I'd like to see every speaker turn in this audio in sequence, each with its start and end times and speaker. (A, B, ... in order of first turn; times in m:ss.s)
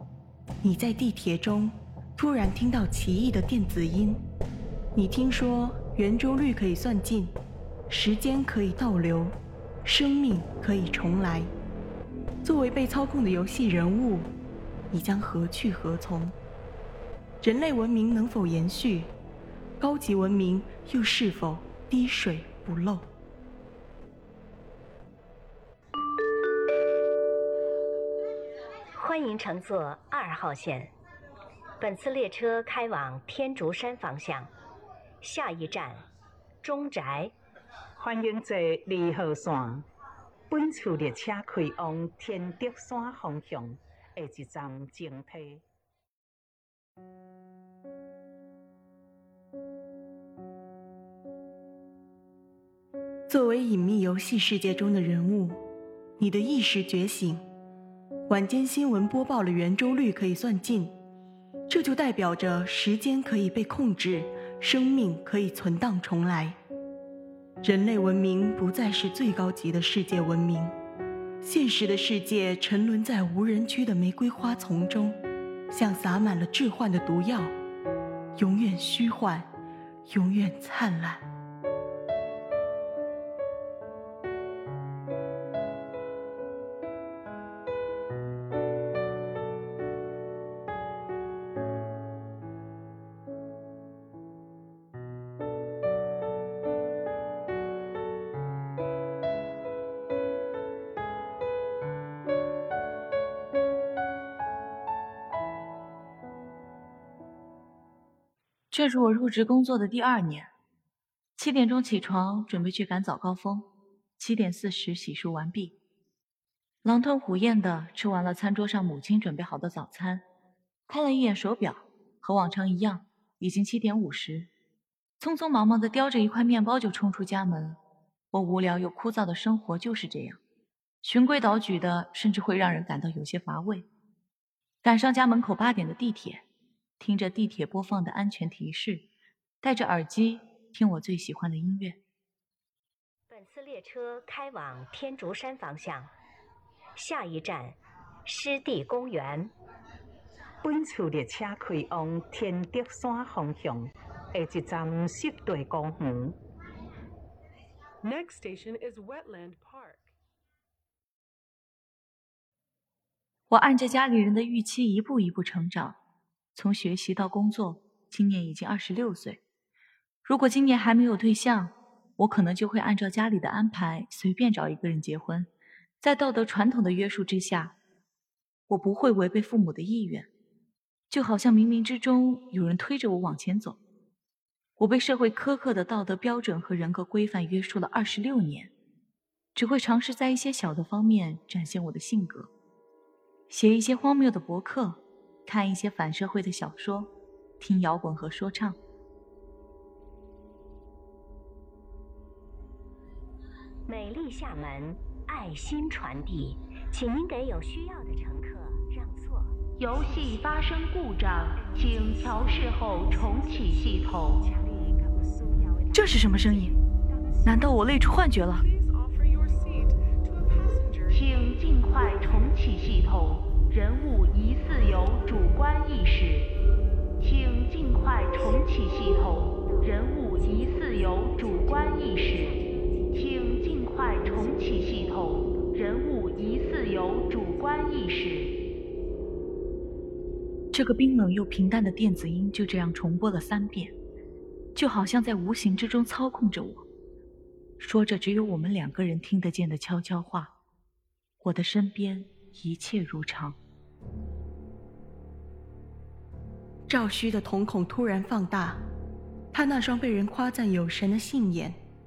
0:00.6-0:04.2 A
0:04.9-0:07.3 A
0:07.9-0:11.5 A
0:12.4-0:14.3 A
0:14.9-0:16.3 A
0:17.4-0:19.1 A
0:19.8-0:23.0 A
0:29.0-0:30.9 B
0:31.8-0:34.5 B
0:35.2-0:36.0 B
0:36.6-0:37.3 B
0:38.0-0:39.9 C
0:40.5-0:45.6 C
0:53.3-0:55.6 A
0:56.2-0:57.4 A
0:58.3-1:00.9 A
1:01.7-1:06.6 A
1:07.6-1:10.7 A
1:11.4-1:17.5 A
1:18.4-1:19.5 A
1:20.1-1:21.3 A
1:48.7-1:50.5 D
1:51.4-1:55.8 D
1:56.8-2:00.2 D
2:00.9-2:04.5 D
2:05.2-2:07.8 D
2:08.3-2:10.4 D
2:11.0-2:13.9 D
2:14.8-2:16.4 D
2:17.0-2:19.1 D
2:19.6-2:22.0 D
2:23.3-2:26.1 B
2:27.0-2:29.5 B
2:30.6-2:36.4 C
2:38.0-2:40.1 E
2:43.5-2:46.0 D
2:46.5-2:49.4 D
2:50.2-2:57.8 D
2:58.7-3:00.3 D
3:01.1-3:03.8 D
3:04.8-3:08.7 D
3:09.5-3:12.5 D
3:13.5-3:18.8 D
3:23.9-3:30.6 B
3:29.8-3:34.4 F
3:31.8-3:32.5 E
3:33.8-3:37.2 C
3:35.9-3:36.7 D
3:37.4-3:38.6 D
3:38.5-3:42.5 E
3:41.1-3:46.5 F
3:47.2-3:52.6 F
3:48.4-3:53.3 B
3:53.1-3:58.5 F
3:54.3-3:55.0 B
3:57.5-3:58.0 B
4:00.7-4:03.9 D
4:04.7-4:06.8 D
4:07.8-4:10.5 D
4:11.4-4:13.6 D
4:16.9-4:18.8 A
4:19.5-4:21.8 A